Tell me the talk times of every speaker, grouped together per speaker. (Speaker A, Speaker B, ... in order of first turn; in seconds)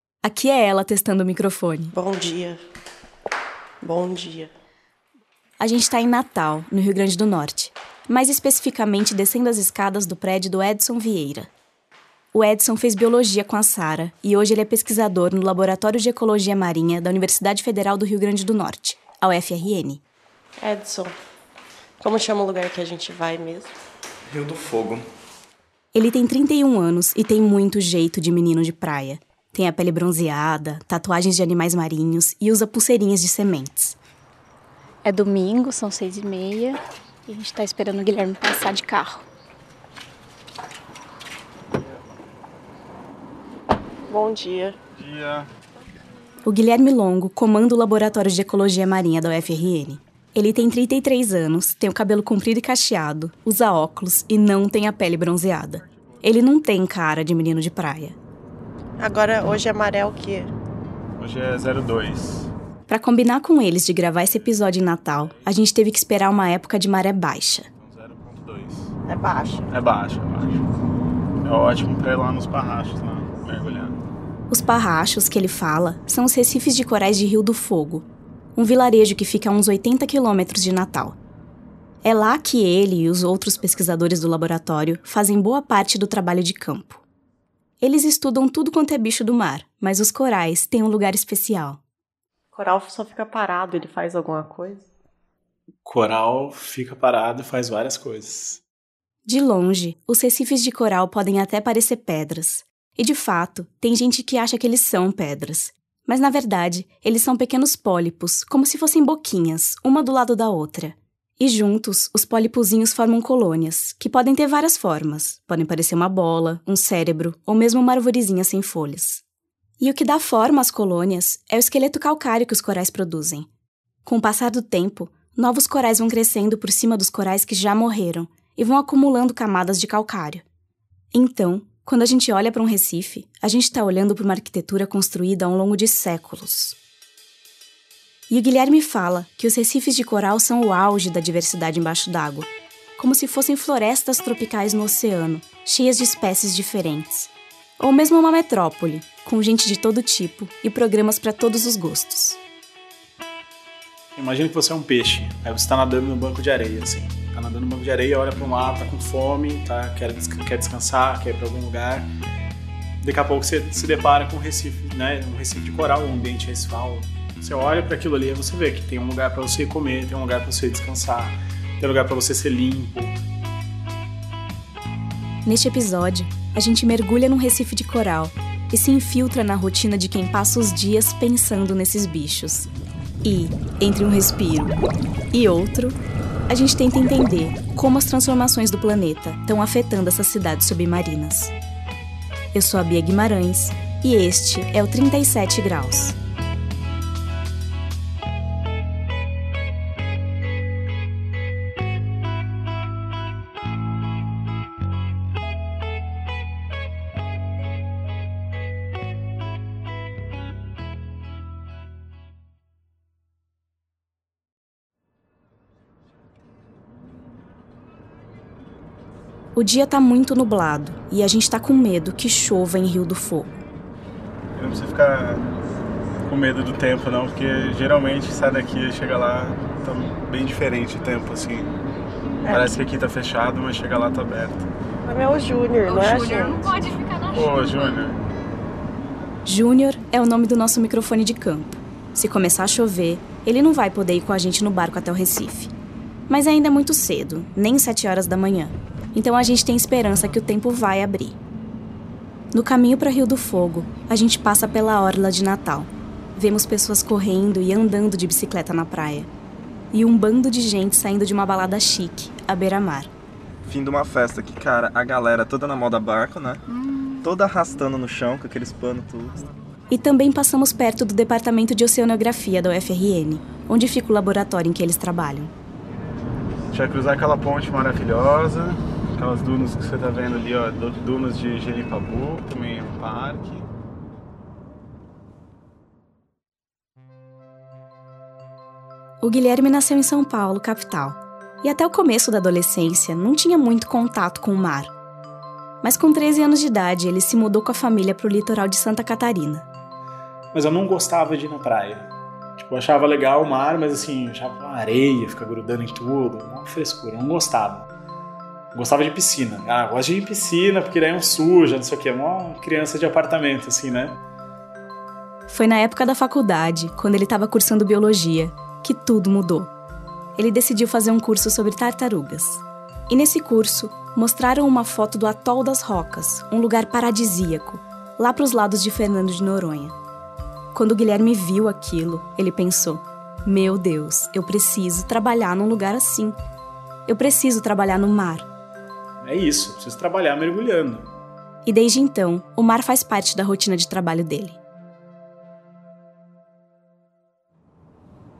Speaker A: 0.2-1.9, 5.6-11.5, 12.3-20.0, 25.9-34.0, 46.5-58.2, 62.9-67.7, 74.5-78.0, 78.5-81.2, 82.0-87.0, 87.8-91.8, 99.2-119.2, 119.8-123.5, 124.0-130.4, 131.1-136.8, 138.3-152.4, 175.4-182.7, 183.2-184.8, 185.3-186.0, 186.5-191.5, 192.5-196.2, 219.5-223.5, 239.4-245.7, 246.3-251.4, 252.5-259.3, 259.9-263.1, 269.9-275.5, 289.2-294.9, 295.8-299.6, 315.5-319.7, 320.4-329.9, 330.7-336.4, 337.1-338.5, 341.6-344.6
Speaker B: 1.9-2.6, 3.8-4.5, 20.6-21.1, 22.0-23.7, 44.1-44.8, 59.0-60.5, 69.0-69.6, 92.5-94.9, 232.4-232.8, 235.0-236.7
Speaker C: 24.3-25.0, 263.6-266.6, 267.2-269.4
Speaker D: 35.0-39.2
Speaker E: 45.0-45.5, 61.2-62.5, 67.8-68.9, 69.7-70.7, 71.4-74.0, 95.8-98.6, 154.1-162.1, 163.0-173.2, 224.5-225.5, 226.2-231.7, 232.4-234.7, 237.3-238.2, 276.7-283.7, 300.5-307.9, 308.7-314.2, 339.2-341.1
Speaker F: 235.8-238.1